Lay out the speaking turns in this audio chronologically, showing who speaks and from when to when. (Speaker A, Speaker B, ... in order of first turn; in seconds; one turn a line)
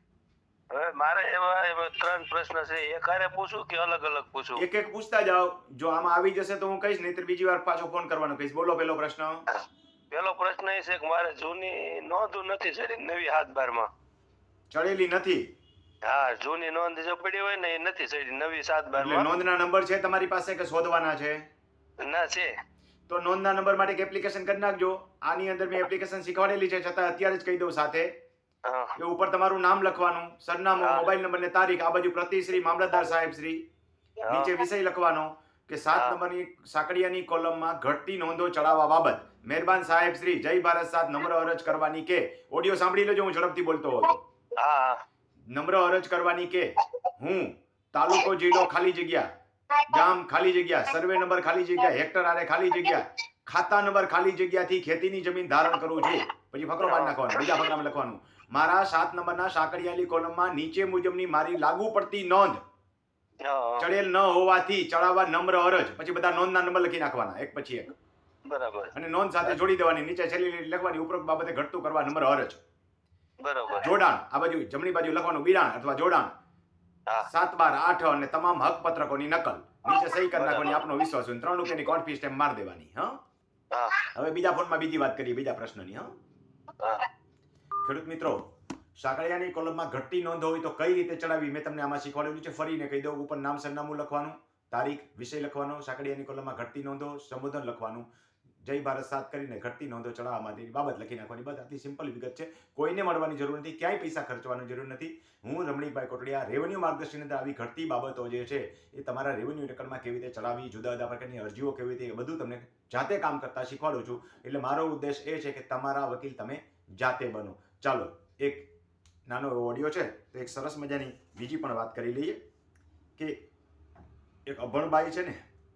Speaker A: 0.7-4.6
Speaker B: 4.6-9.4
Speaker A: 10.1-13.9
Speaker B: 14.7-15.5
Speaker A: 16.1-19.3
Speaker B: 19.0-21.5
Speaker A: 22.0-22.5
Speaker B: 23.1-28.1
Speaker A: 28.6-28.9
Speaker B: 29.0-33.6
Speaker A: 30.8-31.1
Speaker A: 34.2-34.6
Speaker B: 34.3-44.2
Speaker A: 44.6-45.0
Speaker B: 45.5-49.3
Speaker B: 49.9-62.6
Speaker A: 56.8-57.7
Speaker A: 63.4-63.9
Speaker B: 63.8-67.9
Speaker A: 68.5-68.9
Speaker B: 69.0-72.6
Speaker A: 73.4-73.9
Speaker B: 73.8-76.3
Speaker B: 77.3-83.2
Speaker A: 79.9-80.9
Speaker A: 83.7-84.1
Speaker B: 84.2-86.1
Speaker A: 86.8-87.1
Speaker B: 87.8-88.4
Speaker B: 89.0-98.1
Speaker B: 98.6-118.7
Speaker B: 119.3-122.4
Speaker B: 124.5-125.4